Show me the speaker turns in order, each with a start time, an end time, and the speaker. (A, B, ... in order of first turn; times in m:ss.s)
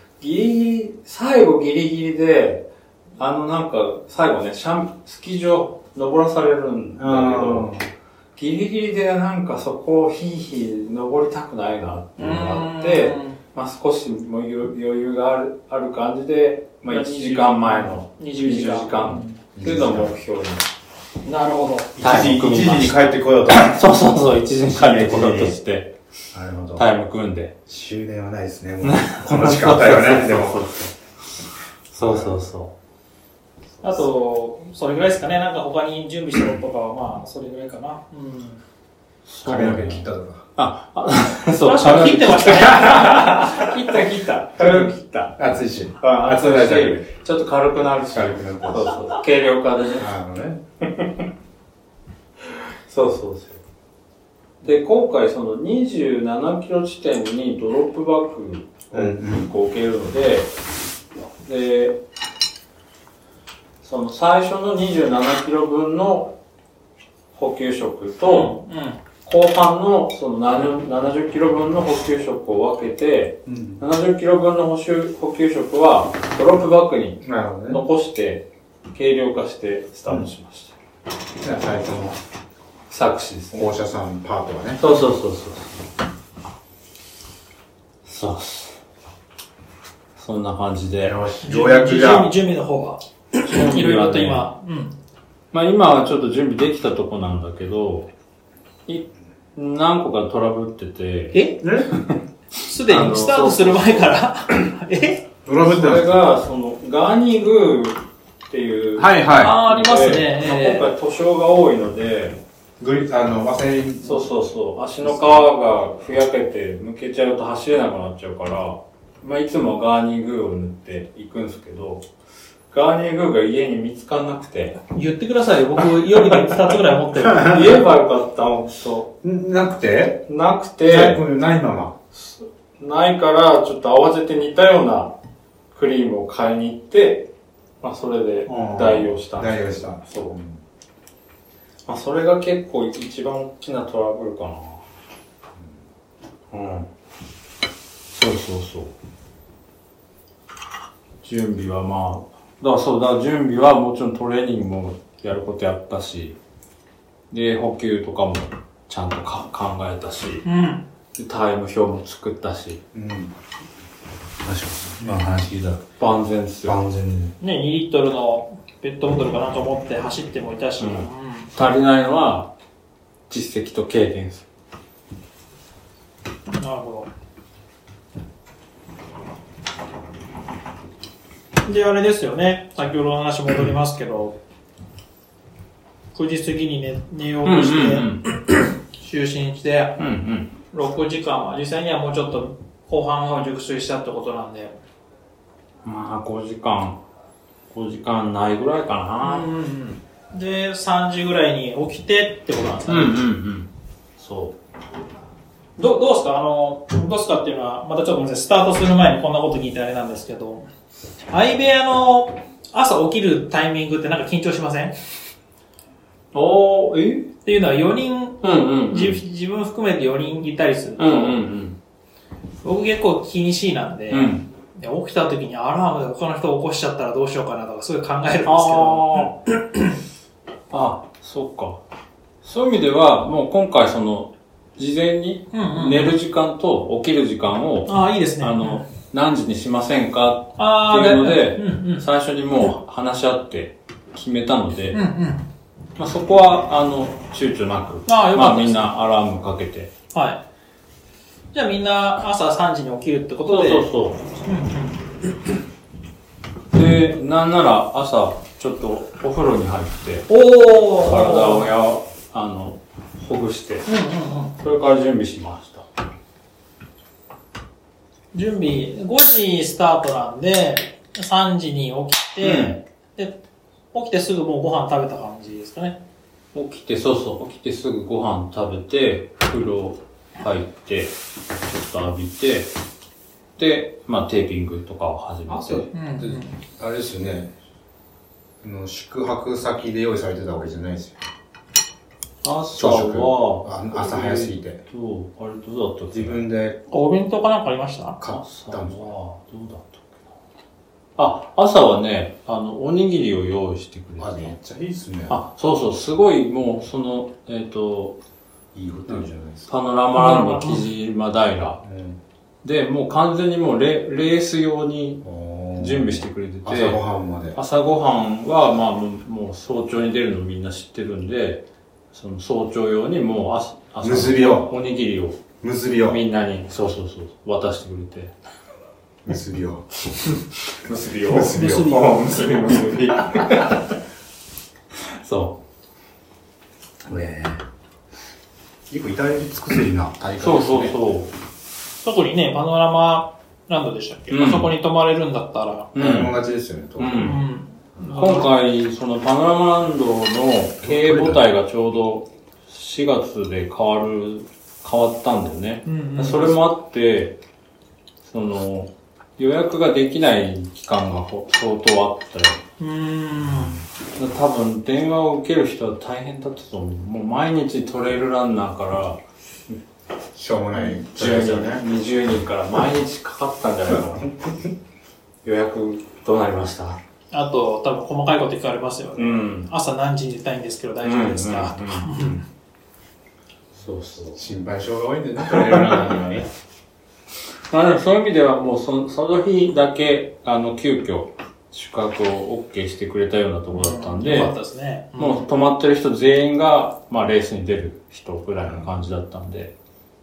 0:00.2-0:07.7 A
0:07.0-0:07.8 B
0:08.4-0:20.6 A
0:12.2-0:13.4 C
0:16.9-0:19.3 C
0:19.6-0:20.1 B
0:21.2-0:21.9 C
0:22.0-0:23.8 B
0:22.0-0:25.9 A
0:24.7-0:25.6 B
0:26.3-0:26.8 B
0:26.7-0:27.5 A
0:27.7-0:30.6 B
0:28.8-0:30.9 A
0:31.9-0:32.7 A
0:32.0-0:32.4 B
0:33.8-0:38.6 C
0:39.3-0:45.4 A
0:39.4-0:40.4 B
0:41.6-0:43.7 C
0:42.9-0:43.5 B
0:44.6-0:47.1 B
0:46.0-0:50.1 A
0:48.1-0:49.0 B
0:50.0-0:50.6 B
0:52.4-0:53.6 A
0:54.6-1:00.5 A
0:58.9-0:59.5 B
1:01.4-1:02.0 A
1:03.8-1:06.3 A
1:07.3-1:08.5 A
1:08.2-1:09.0 C
1:09.2-1:20.7 A
1:13.4-1:13.8 B
1:17.2-1:17.8 B
1:21.4-1:22.2 B
1:22.9-1:23.7 A
1:23.5-1:24.8 B
1:24.8-1:25.8 A
1:28.0-1:28.8 A
1:30.2-1:31.2 A
1:31.0-1:32.3 B
1:31.4-1:34.9 C
1:33.4-1:34.5 A
1:35.5-1:38.1 A
1:38.9-1:42.2 A
1:41.3-1:41.6 C
1:41.6-1:41.9 B
1:42.6-1:45.2 C
1:42.8-1:44.2 A
1:45.4-1:46.2 B
1:45.6-1:52.4 A
1:49.0-1:49.6 B
1:49.4-1:50.9 C
1:52.8-1:54.3 B
1:54.0-2:02.0 A
1:55.0-1:55.5 B
2:02.7-2:04.8 A
2:04.9-2:07.8 C
2:07.2-2:09.1 A
2:09.2-2:10.2 B
2:10.3-2:11.2 A
2:10.8-2:12.0 B
2:12.1-2:15.1 A
2:15.7-2:17.3 A
2:17.8-2:20.4 A
2:18.4-2:20.6 B
2:21.9-2:24.8 A
2:26.5-2:26.9 A
2:28.1-2:28.9 A
2:31.2-2:36.4 A
2:37.3-2:40.4 A
2:40.4-2:40.8 C
2:41.2-2:42.8 A
2:42.9-2:43.3 B
2:44.4-2:45.8 B
2:45.8-2:46.8 A
2:46.6-2:47.3 B
2:47.4-2:51.5 C
2:50.8-2:52.5 A
2:53.3-2:54.4 A
2:56.5-2:57.1 C
3:01.6-3:04.4 C
3:06.1-3:10.0 C
3:07.4-3:08.2 A
3:10.0-3:10.5 A
3:10.7-3:14.8 C
3:15.8-3:17.0 A
3:17.7-3:19.5 A
3:19.2-3:23.2 C
3:22.9-3:24.5 A
3:25.8-3:30.6 C
3:31.3-3:35.0 C
3:36.3-3:37.3 A
3:37.4-3:41.4 C
3:38.4-3:39.2 A
3:41.0-3:41.8 A
3:42.6-3:49.9 C
3:44.1-3:44.4 A
3:48.4-3:49.3 A
3:50.7-3:51.8 A
3:52.4-4:05.0 A
3:55.5-3:56.1 C
3:57.9-3:58.8 C
4:00.6-4:02.0 C
4:04.9-4:05.4 C
4:06.0-4:09.9 A
4:08.1-4:08.9 C
4:10.1-4:10.4 C
4:11.5-4:13.9 C
4:13.5-4:14.2 A
4:14.4-4:15.3 C
4:16.7-4:20.3 A
4:20.3-4:21.7 C
4:21.0-4:23.9 A
4:23.8-4:24.5 C
4:24.6-4:25.8 A
4:28.3-4:33.4 C
4:32.4-4:32.8 A
4:33.9-4:36.0 C
4:36.5-4:41.1 A
4:41.6-4:42.7 A
4:43.6-4:45.9 A
4:45.5-4:46.6 C
4:46.2-4:47.5 B
4:48.6-4:51.2 B
4:52.4-4:56.4 A
4:52.7-4:54.8 B
4:56.1-4:56.8 B
4:56.9-4:58.2 C
4:58.2-4:59.1 B
4:58.2-5:00.3 A
5:01.2-5:04.5 A
5:04.2-5:05.4 B
5:05.3-5:08.2 A
5:08.7-5:09.7 B
5:09.1-5:11.8 A
5:10.2-5:10.8 C
5:11.8-5:12.2 B
5:12.6-5:15.2 A
5:15.2-5:17.6 B
5:15.8-5:17.0 A
5:17.5-5:25.4 A
5:24.0-5:24.7 B
5:25.6-5:26.2 B
5:26.0-5:28.3 A
5:29.2-5:29.8 B
5:30.7-5:33.9 A
5:31.3-5:32.1 B
5:31.5-5:32.5 C
5:35.0-5:35.6 A
5:37.0-5:37.6 B
5:38.9-5:41.0 B
5:40.4-5:41.3 A
5:42.0-5:45.9 C
5:44.3-5:44.7 A
5:45.9-5:46.4 A
5:46.0-5:47.4 B
5:47.0-5:47.4 A
5:47.2-5:48.5 C
5:48.1-5:57.4 A
5:50.8-5:51.4 B
5:55.8-5:56.6 C
5:58.2-6:02.6 A
6:02.8-6:03.8 C
6:04.2-6:09.2 A
6:10.3-6:11.8 B
6:10.7-6:14.4 A
6:15.4-6:17.0 A
6:17.3-6:22.4 C
6:19.2-6:19.7 A
6:21.0-6:22.4 A
6:23.8-6:24.4 A
6:24.4-6:26.4 B
6:25.4-6:26.5 A
6:27.7-6:34.5 A
6:33.7-6:35.5 C
6:35.2-6:39.7 A
6:38.6-6:38.9 B